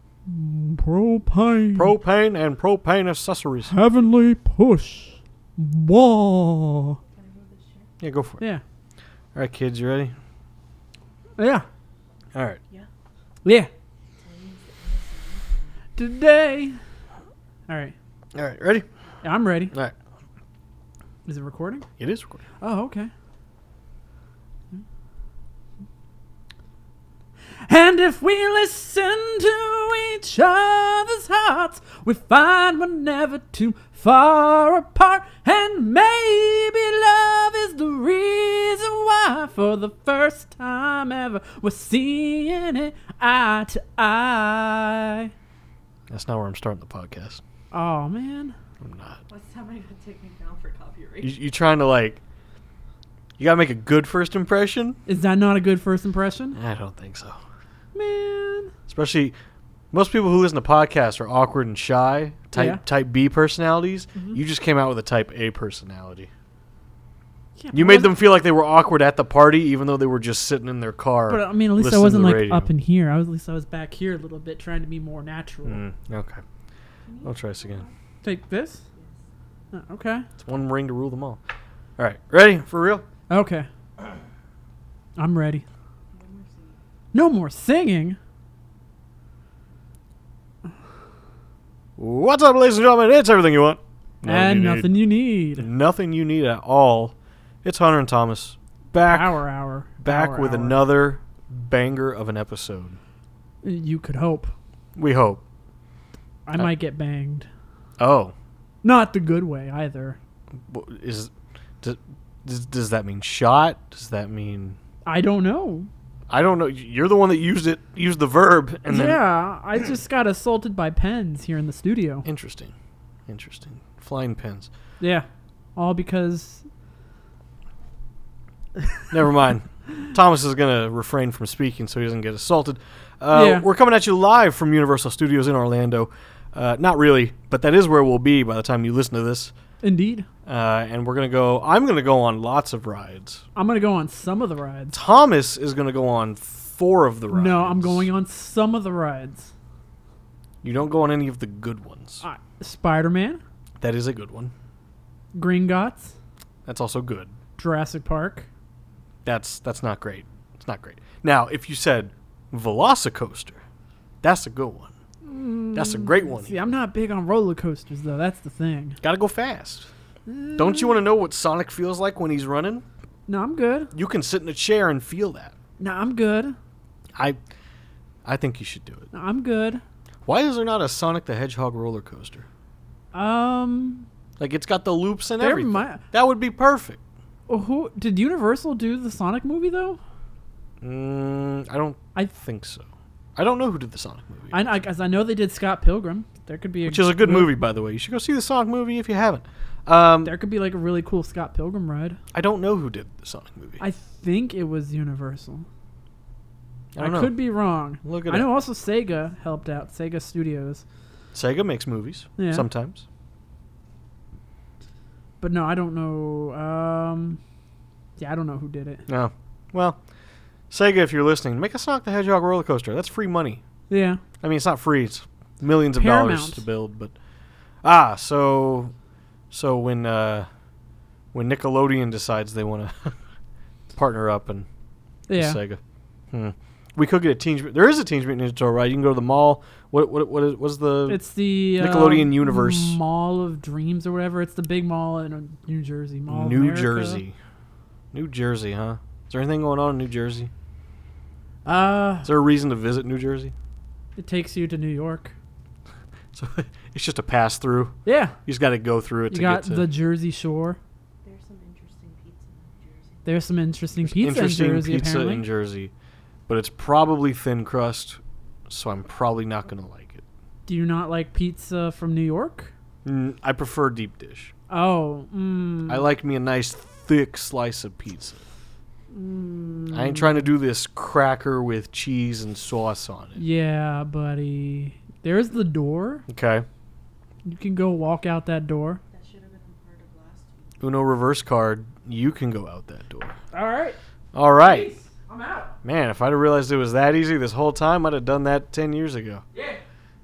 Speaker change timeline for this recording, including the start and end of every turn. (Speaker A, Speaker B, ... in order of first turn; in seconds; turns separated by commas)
Speaker A: 0.3-1.9, Speaker B: 1.8-3.7, Speaker A: 3.7-7.0, Speaker C: 7.1-7.9, Speaker B: 8.0-8.4, Speaker B: 9.3-10.2, Speaker A: 11.4-11.7, Speaker B: 12.3-12.6, Speaker A: 13.4-13.7, Speaker C: 14.2-15.8, Speaker A: 16.0-16.8, Speaker A: 17.7-17.9, Speaker B: 18.4-18.9, Speaker A: 19.2-19.7, Speaker A: 21.3-21.9, Speaker B: 22.0-22.4, Speaker A: 22.6-23.1, Speaker A: 27.6-45.3, Speaker B: 46.1-47.4, Speaker A: 47.7-48.6, Speaker B: 48.8-49.2, Speaker C: 49.3-51.4, Speaker B: 51.2-52.2, Speaker B: 53.4-55.0, Speaker A: 55.1-56.6, Speaker B: 56.5-57.4, Speaker A: 57.9-58.7, Speaker B: 58.9-59.4, Speaker B: 59.9-66.3, Speaker A: 62.5-62.8, Speaker A: 67.6-68.1, Speaker B: 67.7-72.7, Speaker A: 71.3-75.8, Speaker B: 75.7-76.4, Speaker C: 77.0-77.9, Speaker B: 77.2-77.8, Speaker A: 78.2-78.8, Speaker C: 78.9-79.2, Speaker A: 79.7-80.3, Speaker B: 80.4-81.4, Speaker B: 82.0-83.1, Speaker A: 83.3-83.7, Speaker A: 85.2-85.6, Speaker C: 86.1-86.8, Speaker A: 87.1-88.2, Speaker B: 92.0-95.0, Speaker A: 94.2-95.7, Speaker B: 95.6-99.4, Speaker A: 99.0-100.8, Speaker B: 100.0-103.0, Speaker A: 103.6-104.5, Speaker B: 105.0-105.4, Speaker A: 106.5-107.5, Speaker B: 108.0-108.3, Speaker A: 108.8-110.2, Speaker B: 110.7-111.3, Speaker B: 111.8-114.8, Speaker A: 115.0-115.9, Speaker B: 116.3-119.2, Speaker A: 118.9-122.3, Speaker B: 122.2-122.7, Speaker B: 123.3-124.7, Speaker A: 125.0-126.7, Speaker B: 129.1-139.5, Speaker A: 133.3-133.7, Speaker A: 139.8-140.3, Speaker B: 140.5-143.4, Speaker A: 143.6-145.0, Speaker B: 144.9-148.1, Speaker A: 147.3-149.5, Speaker B: 150.6-152.2, Speaker A: 152.2-153.4, Speaker B: 153.8-154.5, Speaker A: 155.3-156.2, Speaker B: 156.7-157.3, Speaker A: 157.6-158.5, Speaker B: 159.2-163.6, Speaker B: 164.2-164.9, Speaker A: 165.2-169.0, Speaker B: 165.8-166.6, Speaker B: 169.0-169.9, Speaker A: 170.3-171.0, Speaker B: 170.6-172.8, Speaker A: 173.3-173.9, Speaker B: 173.9-175.6, Speaker A: 175.8-176.6, Speaker B: 178.2-179.1, Speaker A: 179.1-179.8, Speaker B: 180.2-182.5, Speaker A: 183.1-184.1, Speaker B: 184.4-187.0, Speaker A: 185.4-186.0, Speaker A: 187.5-190.0, Speaker B: 190.8-194.7, Speaker A: 194.5-197.6, Speaker B: 196.8-200.3, Speaker A: 200.2-202.2, Speaker B: 202.3-203.8, Speaker A: 203.8-205.7, Speaker B: 206.9-207.3, Speaker A: 207.0-210.8, Speaker B: 208.0-208.5, Speaker B: 211.3-213.0, Speaker A: 212.4-212.7, Speaker A: 215.4-217.4, Speaker A: 218.2-219.1, Speaker B: 219.1-220.0, Speaker B: 220.7-223.6, Speaker A: 223.9-224.2, Speaker B: 224.4-227.1, Speaker A: 225.9-226.6, Speaker B: 227.8-228.9, Speaker B: 229.5-230.5, Speaker B: 231.3-233.2, Speaker B: 233.9-234.7, Speaker A: 235.3-235.6, Speaker B: 235.3-235.8, Speaker B: 236.3-241.2, Speaker A: 241.1-247.2, Speaker B: 241.8-243.0, Speaker B: 246.3-247.4, Speaker B: 248.1-250.5, Speaker A: 251.7-252.3, Speaker B: 252.2-253.5, Speaker A: 254.2-255.3, Speaker B: 256.3-259.8, Speaker A: 258.1-258.4, Speaker A: 259.3-260.8, Speaker C: 261.2-263.5, Speaker A: 263.2-265.4, Speaker B: 264.0-265.9, Speaker B: 266.5-270.2, Speaker A: 270.7-272.7, Speaker B: 273.1-274.5, Speaker A: 274.7-276.1, Speaker B: 275.9-278.4, Speaker A: 279.1-280.5, Speaker B: 279.9-283.4, Speaker A: 283.4-286.2, Speaker B: 286.3-286.7, Speaker A: 287.4-289.0, Speaker C: 289.1-290.7, Speaker B: 290.8-293.4, Speaker A: 293.5-294.0, Speaker B: 294.3-294.9, Speaker A: 294.6-295.8, Speaker B: 295.8-299.4, Speaker A: 299.5-299.8